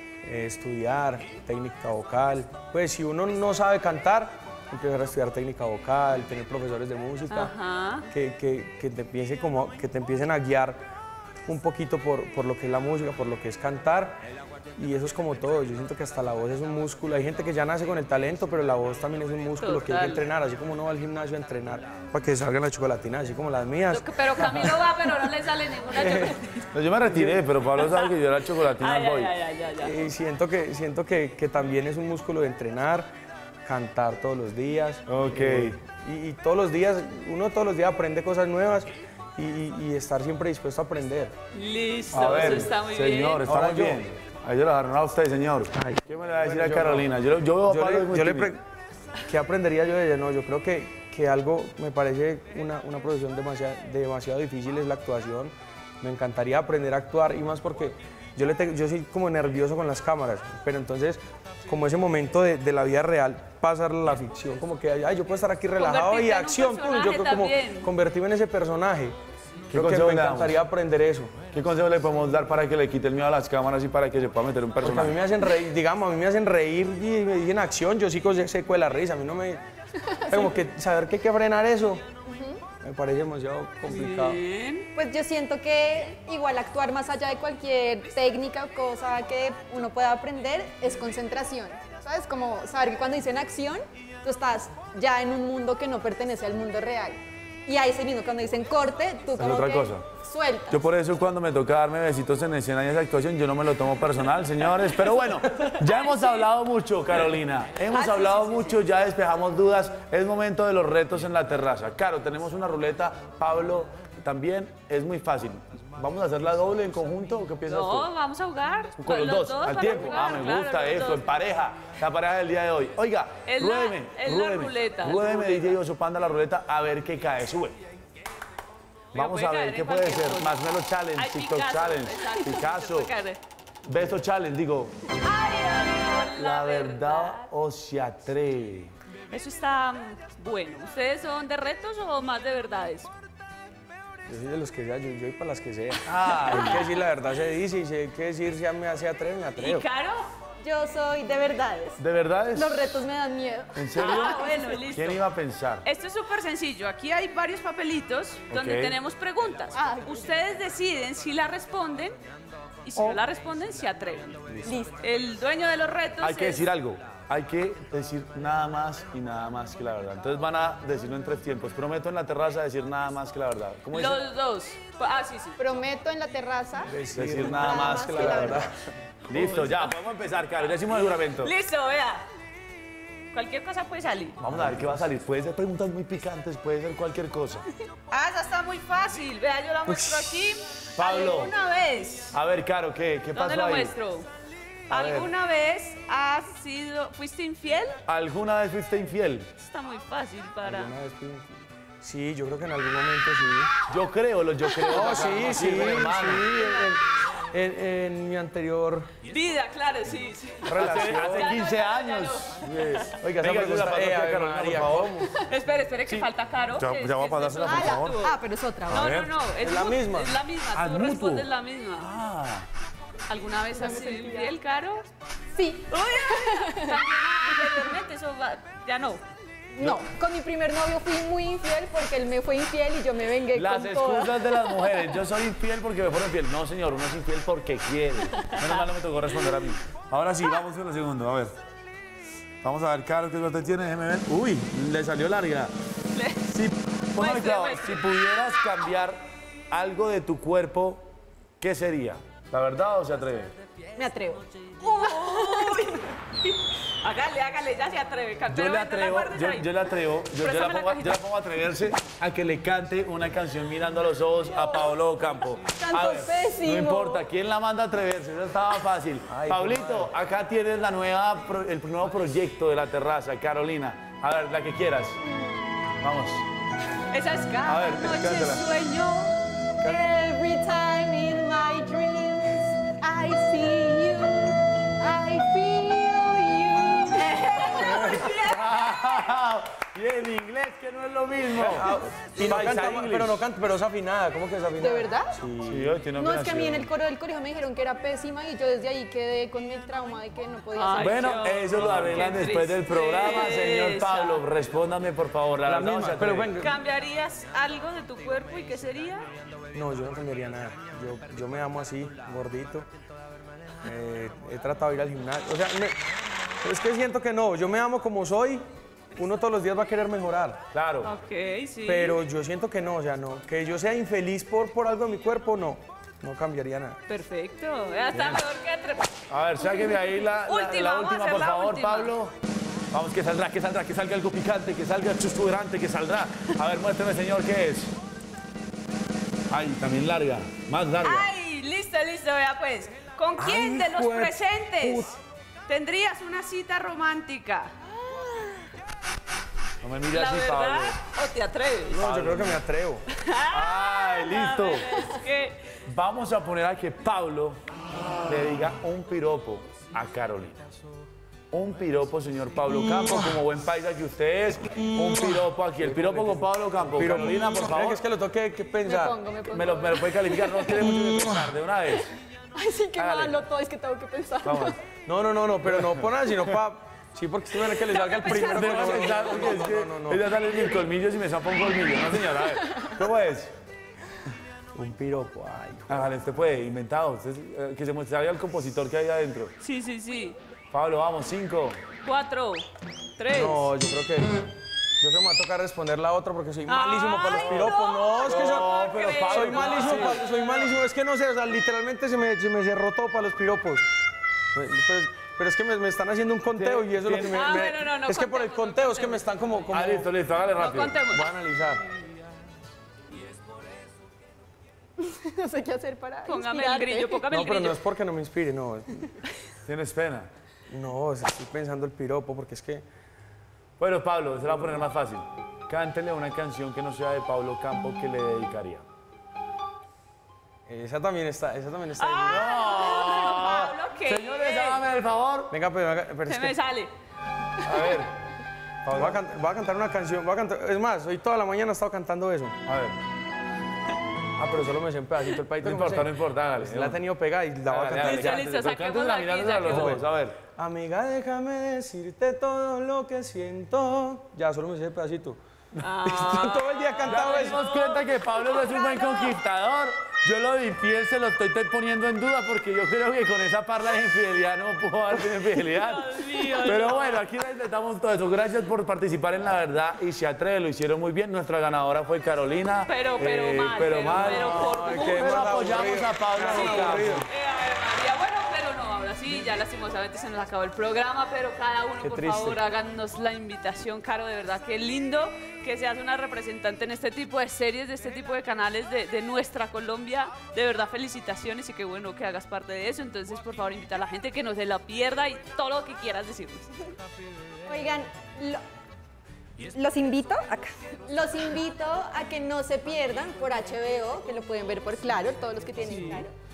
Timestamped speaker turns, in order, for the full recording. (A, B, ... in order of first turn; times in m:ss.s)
0:00.2-0:07.5 A
0:07.3-0:08.1 B
0:08.1-0:10.8 A
0:11.5-0:14.2 A
0:14.8-0:24.8 A
0:19.6-0:20.2 B
0:23.9-0:26.7 B
0:25.9-0:26.4 A
0:26.7-0:29.3 C
0:27.0-0:27.4 A
0:27.8-0:28.1 B
0:28.8-0:29.9 B
0:29.8-0:33.1 A
0:33.6-0:41.3 A
0:35.1-0:35.8 C
0:41.5-0:43.4 B
0:42.1-0:48.5 C
0:42.2-0:42.6 A
0:43.5-0:44.0 A
0:45.8-0:47.1 A
0:47.7-0:48.6 A
0:49.3-1:09.2 A
1:05.8-1:07.9 B
1:09.7-1:10.6 C
1:09.7-1:11.4 A
1:11.5-1:15.2 C
1:14.8-1:19.6 A
1:20.0-1:20.4 D
1:20.3-1:22.0 A
1:22.3-1:22.6 D
1:22.8-1:24.4 A
1:23.9-1:24.9 B
1:25.0-1:40.8 D
1:39.4-1:40.0 C
1:40.7-1:58.1 C
1:45.0-1:46.5 B
1:47.9-1:48.8 B
1:57.7-2:01.2 B
1:59.0-2:07.8 C
2:03.4-2:05.8 B
2:09.1-2:10.5 B
2:09.1-2:13.1 C
2:11.2-2:13.4 B
2:13.8-2:15.1 C
2:15.2-2:17.5 B
2:16.3-2:18.9 C
2:19.3-2:23.1 B
2:24.2-2:29.8 A
2:26.0-2:26.9 C
2:26.5-2:26.8 B
2:29.6-2:30.3 B
2:30.6-2:34.5 D
2:32.0-2:33.0 C
2:33.7-2:35.8 C
2:34.0-2:35.2 B
2:35.8-2:42.2 B
2:38.5-2:39.0 C
2:39.7-2:40.3 D
2:42.8-2:46.6 B
2:44.6-2:45.0 D
2:46.2-2:54.2 C
2:53.9-2:55.6 B
2:55.6-2:56.9 D
2:56.9-2:58.9 A
2:57.1-2:58.7 C
2:57.4-2:58.6 D
2:59.3-3:01.5 C
2:59.3-2:59.9 B
3:00.9-3:02.2 B
3:03.3-3:04.4 B
3:04.4-3:07.6 C
3:04.5-3:05.1 A
3:08.1-3:12.4 B
3:09.8-3:10.4 A
3:11.0-3:11.5 C
3:12.3-3:13.9 C
3:13.3-3:14.3 B
3:14.9-3:18.0 B
3:14.9-3:15.3 C
3:18.1-3:19.5 C
3:19.6-3:20.9 B
3:20.6-3:23.7 A
3:23.9-3:26.5 C
3:24.9-3:29.1 A
3:26.5-3:26.9 B
3:29.3-3:33.1 B
3:30.6-3:35.2 C
3:30.7-3:31.5 A
3:33.4-3:35.3 A
3:35.4-3:38.3 B
3:36.1-3:38.2 C
3:37.6-3:39.0 D
3:38.9-3:39.3 C
3:38.9-3:42.1 B
3:39.6-3:40.3 A
3:40.7-3:42.7 C
3:43.3-3:45.0 B
3:43.7-3:44.5 D
3:45.5-3:48.0 D
3:45.9-3:49.2 B
3:49.7-3:55.0 D
3:53.5-4:01.5 C
4:02.6-4:05.7 C
4:06.1-4:08.3 B
4:06.5-4:11.0 C
4:11.6-4:13.5 C
4:14.0-4:14.4 D
4:14.8-4:19.7 B
4:15.0-4:16.0 D
4:18.5-4:35.2 C
4:20.4-4:21.2 B
4:25.7-4:27.2 D
4:29.3-4:30.1 A
4:35.3-4:35.6 D
4:36.0-4:36.4 C
4:37.1-4:39.3 B
4:37.7-4:38.6 C
4:39.8-4:48.4 D
4:47.1-4:48.6 B
4:47.9-4:53.4 C
4:51.5-4:56.0 A
4:54.8-4:55.3 D
4:55.6-4:56.9 C
4:56.2-5:01.3 D
5:00.7-5:04.4 B
5:01.0-5:06.6 C
5:05.6-5:06.7 A
5:06.6-5:09.3 B
5:09.7-5:12.9 A
5:13.8-5:16.0 A
5:16.6-5:20.6 A
5:20.7-5:21.1 C
5:21.0-5:22.2 B
5:21.8-5:27.0 A
5:27.1-5:32.1 B
5:28.1-5:28.4 C
5:29.3-5:32.3 C
5:32.9-5:37.9 C
5:39.5-5:41.3 C
5:41.0-5:45.1 B
5:43.4-5:45.1 A
5:45.7-5:48.6 B
5:49.8-5:51.0 C
5:50.1-5:52.0 B
5:51.9-5:53.0 A
5:52.0-5:52.6 C
5:53.1-5:55.8 B
5:53.5-5:54.8 C
5:55.8-5:57.6 C
5:58.2-6:00.6 C
6:01.5-6:08.0 C
6:02.9-6:03.3 A
6:04.9-6:09.2 A
6:08.8-6:10.1 D
6:09.5-6:12.1 C
6:12.5-6:14.8 D
6:13.0-6:13.4 C
6:14.4-6:14.8 C
6:15.1-6:20.4 A
6:15.6-6:16.5 C
6:18.0-6:19.4 D
6:18.2-6:23.5 C
6:22.4-6:23.0 D
6:24.7-6:26.1 A
6:25.9-6:29.5 C
6:29.6-6:30.4 B
6:30.7-6:31.8 C
6:32.0-6:32.6 B
6:33.2-6:33.7 B
6:33.3-6:34.4 A
6:35.0-6:38.7 A
6:36.6-6:40.7 B
6:38.3-6:40.2 C
6:39.2-6:43.8 A
6:44.5-6:50.1 A
6:46.5-6:47.7 C
6:47.2-6:49.7 B
6:49.7-6:51.0 C
6:50.6-6:51.3 B
6:51.1-6:51.8 A
6:55.0-6:57.3 D
6:56.2-6:57.8 B
6:57.3-6:59.1 A
6:59.6-7:00.3 C
7:00.7-7:02.8 A
7:03.8-7:08.8 C
7:10.7-7:12.5 A
7:12.0-7:14.8 B
7:12.3-7:15.5 C
7:15.5-7:16.6 A
7:16.3-7:16.9 B
7:17.6-7:18.1 C
7:18.8-7:22.6 A
7:18.9-7:19.2 C
7:22.6-7:23.0 C
7:24.4-7:28.4 A
7:25.6-7:27.0 C
7:27.6-7:30.4 C
7:28.0-7:30.0 B
7:29.7-7:30.0 A
7:30.6-7:35.4 A
7:35.8-7:39.4 B
7:36.0-7:37.6 A
7:37.1-7:57.2 C
7:45.6-7:47.2 B
7:52.9-7:55.7 B
7:54.1-7:57.3 A
7:56.5-8:16.8 B
8:02.0-8:02.6 A
8:17.6-8:18.6 D
8:19.7-8:26.3 D